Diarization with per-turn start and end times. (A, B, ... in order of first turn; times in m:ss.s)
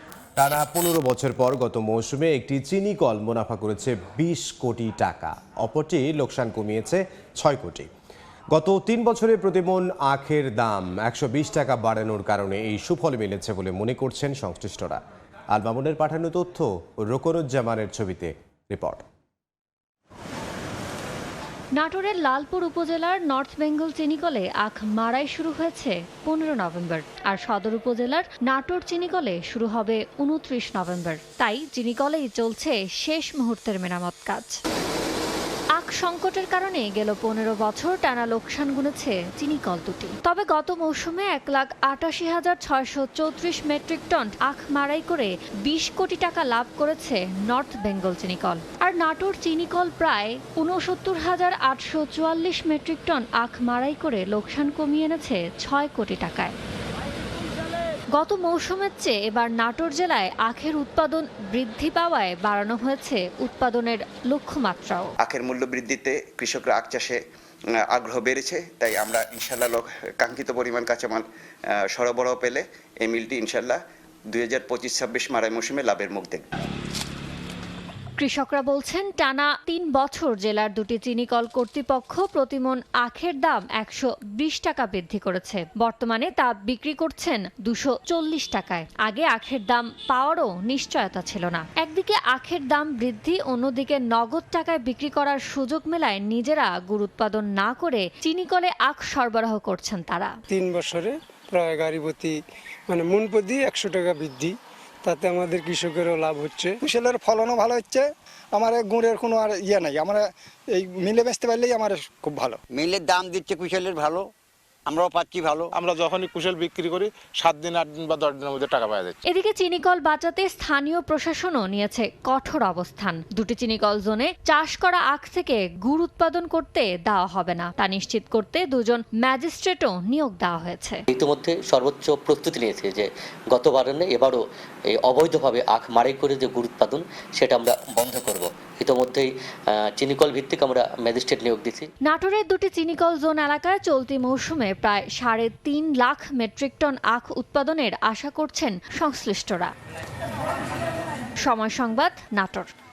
0:00.4-0:07.9 A
0:08.5-0:15.0 A
0:15.5-0:19.0 A
0:21.8-0:34.6 B
0:35.8-0:56.6 B
0:58.2-1:05.1 B
1:05.2-1:07.2 C
1:07.9-1:11.2 C
1:11.9-1:13.8 C
1:14.3-1:16.5 C
1:18.2-1:40.4 B
1:40.5-1:42.4 D
1:42.9-1:46.8 D
1:46.9-1:50.2 E
1:50.8-1:52.6 E
1:52.7-1:54.3 F
1:54.9-1:55.8 F
1:55.8-1:59.2 G
1:59.2-2:11.0 B
2:11.1-2:19.3 H
2:20.0-2:21.9 H
2:22.0-2:29.7 B
2:31.4-2:32.7 B